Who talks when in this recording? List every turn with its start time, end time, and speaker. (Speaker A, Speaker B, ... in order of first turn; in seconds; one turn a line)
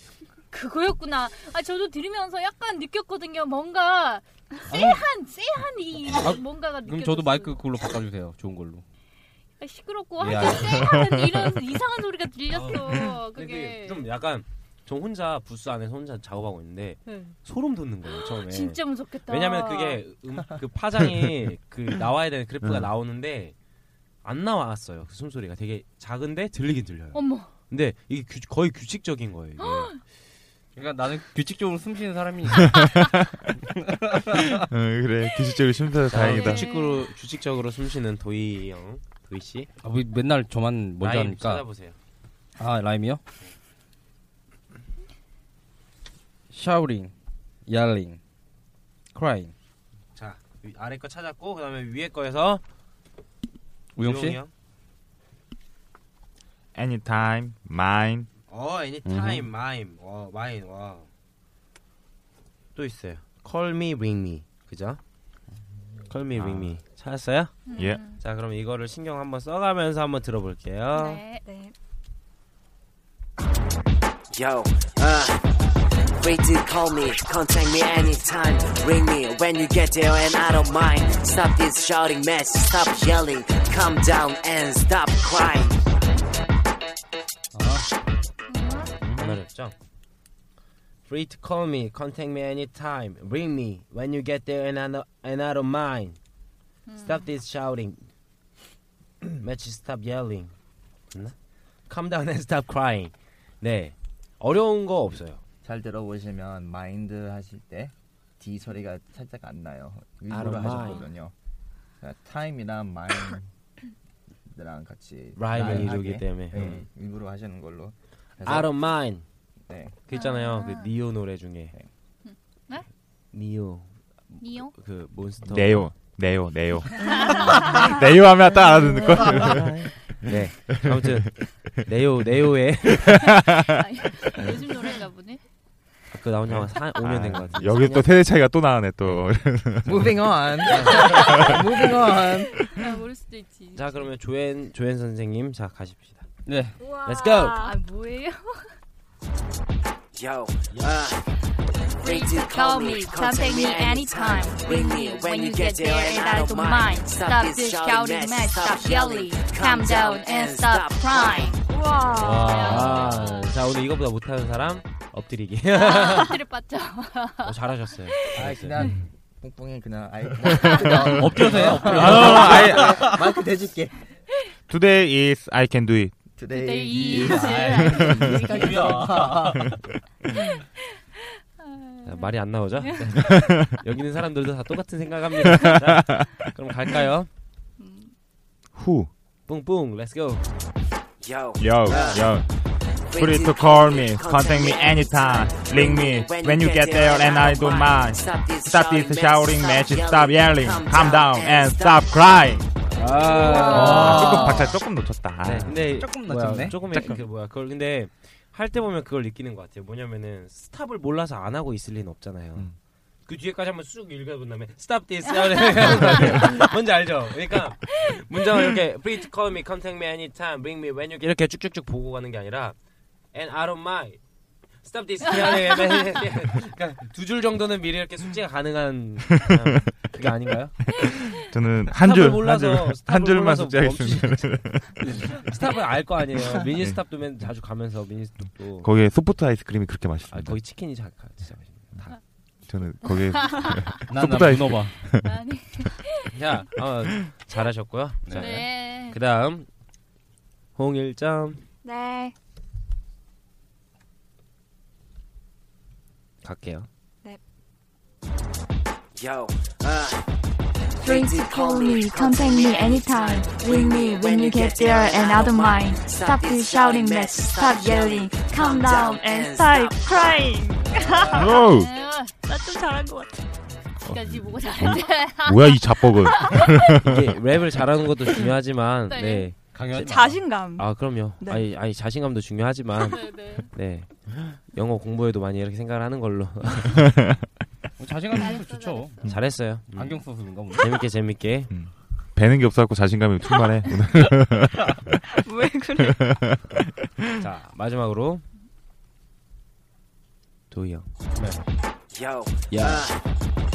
Speaker A: 0.5-7.6
Speaker B: 4.7-5.1
Speaker B: 6.1-8.8
Speaker A: 9.6-14.1
Speaker B: 10.2-11.0
Speaker C: 11.1-11.4
Speaker D: 12.5-23.5
Speaker A: 17.1-17.4
Speaker A: 18.1-20.0
Speaker D: 24.2-30.0
Speaker A: 27.1-27.5
Speaker A: 29.6-29.9
Speaker B: 30.8-32.9
Speaker C: 32.7-33.1
Speaker B: 33.6-34.6
Speaker C: 34.7-36.7
Speaker D: 36.1-39.7
Speaker A: 36.2-37.0
Speaker B: 39.8-41.7
Speaker D: 41.0-42.0
Speaker B: 42.6-43.2
Speaker B: 46.5-47.1
Speaker B: 47.7-48.2
Speaker B: 49.1-49.5
Speaker D: 50.1-52.6
Speaker B: 54.0-54.4
Speaker D: 54.0-54.5
Speaker C: 56.8-58.3
Speaker D: 58.5-61.1
Speaker B: 59.0-59.5
Speaker D: 62.8-65.0
Speaker D: 66.1-71.2
Speaker C: 66.3-66.8
Speaker A: 67.7-68.2
Speaker C: 67.8-68.0
Speaker A: 70.9-71.5
Speaker E: 71.4-71.7
Speaker F: 74.3-75.4
Speaker F: 76.2-85.8
Speaker B: 87.5-87.9
Speaker A: 88.5-88.9
Speaker B: 89.0-89.4
Speaker D: 89.2-89.8
Speaker D: 91.0-96.2
Speaker A: 96.9-97.3
Speaker D: 97.0-98.0
Speaker D: 99.3-100.5
Speaker D: 101.9-105.4
Speaker G: 105.6-111.3
Speaker D: 110.3-111.1
Speaker A: 110.8-111.0
Speaker G: 112.0-113.5
Speaker G: 114.5-118.7
Speaker D: 115.4-116.8
Speaker B: 115.6-115.8
Speaker D: 118.4-119.2
Speaker G: 119.7-120.0
Speaker D: 120.1-121.7
Speaker A: 120.1-120.9
Speaker A: 122.2-122.8
Speaker D: 123.3-126.0
Speaker A: 124.4-124.7
Speaker C: 125.4-131.5
Speaker D: 127.0-127.8
Speaker A: 127.1-127.7
Speaker D: 129.2-133.2
Speaker C: 133.1-133.8
Speaker A: 133.7-135.4
Speaker D: 136.1-138.3
Speaker C: 136.5-140.4
Speaker D: 139.0-139.3
Speaker G: 139.8-142.7
Speaker D: 140.6-141.6
Speaker A: 140.9-144.1
Speaker C: 141.1-141.6
Speaker D: 143.7-146.2
Speaker B: 146.5-146.8
Speaker E: 146.8-147.8
Speaker D: 147.0-147.6
Speaker A: 147.6-148.7
Speaker F: 150.2-151.2
Speaker A: 152.0-161.6
Speaker F: 152.0-161.6
Speaker E: 161.7-162.8
Speaker B: 162.2-163.3
Speaker A: 162.3-163.6
Speaker D: 162.6-166.4
Speaker A: 165.7-167.6
Speaker D: 167.4-168.8
Speaker G: 168.3-174.0
Speaker B: 170.8-173.3
Speaker C: 171.1-173.0
Speaker C: 174.7-176.2
Speaker G: 176.4-179.8
Speaker A: 176.5-179.1
Speaker B: 176.9-179.8
Speaker A: 180.3-180.7
Speaker A: 181.6-183.4
Speaker D: 182.1-187.3
Speaker C: 183.2-183.8
Speaker C: 185.5-186.2
Speaker A: 187.8-188.1
Speaker C: 188.8-189.1
Speaker D: 189.5-190.4
Speaker F: 191.2-192.2
Speaker C: 191.6-192.5
Speaker F: 193.1-202.3
Speaker C: 193.1-202.7
Speaker B: 202.9-204.8
Speaker D: 202.9-204.7
Speaker E: 203.4-204.0
Speaker C: 203.7-205.9
Speaker D: 205.4-212.7
Speaker B: 205.6-206.9
Speaker C: 206.8-207.2
Speaker D: 213.3-222.8
Speaker A: 215.7-216.4
Speaker D: 223.3-224.2
Speaker D: 224.8-231.0
Speaker C: 231.0-235.2
Speaker D: 231.9-238.9
Speaker C: 236.8-237.4
Speaker C: 238.7-240.6
Speaker D: 240.3-242.2
Speaker C: 242.7-245.3
Speaker A: 243.0-243.9
Speaker B: 244.0-245.0
Speaker A: 245.2-246.3
Speaker B: 246.3-246.8
Speaker D: 246.8-249.7
Speaker B: 248.2-248.6
Speaker A: 248.3-249.2
Speaker D: 250.8-251.6
Speaker E: 251.8-252.3
Speaker D: 256.4-256.9
Speaker F: 259.2-260.3
Speaker E: 261.0-271.7
Speaker F: 261.0-271.2
Speaker B: 270.8-271.5
Speaker C: 271.3-271.9
Speaker A: 271.6-272.3
Speaker E: 272.4-273.5
Speaker A: 274.0-276.9
Speaker C: 274.0-277.2
Speaker D: 277.0-287.1
Speaker A: 279.1-279.5
Speaker B: 279.7-280.4
Speaker E: 280.1-281.7
Speaker A: 283.1-283.7
Speaker B: 288.0-291.1
Speaker A: 288.3-289.3
Speaker D: 289.3-291.7
Speaker C: 291.7-295.2
Speaker E: 295.3-296.3
Speaker C: 296.0-296.8
Speaker D: 297.4-298.4
Speaker D: 300.7-301.6
Speaker F: 302.1-303.2
Speaker G: 302.7-303.1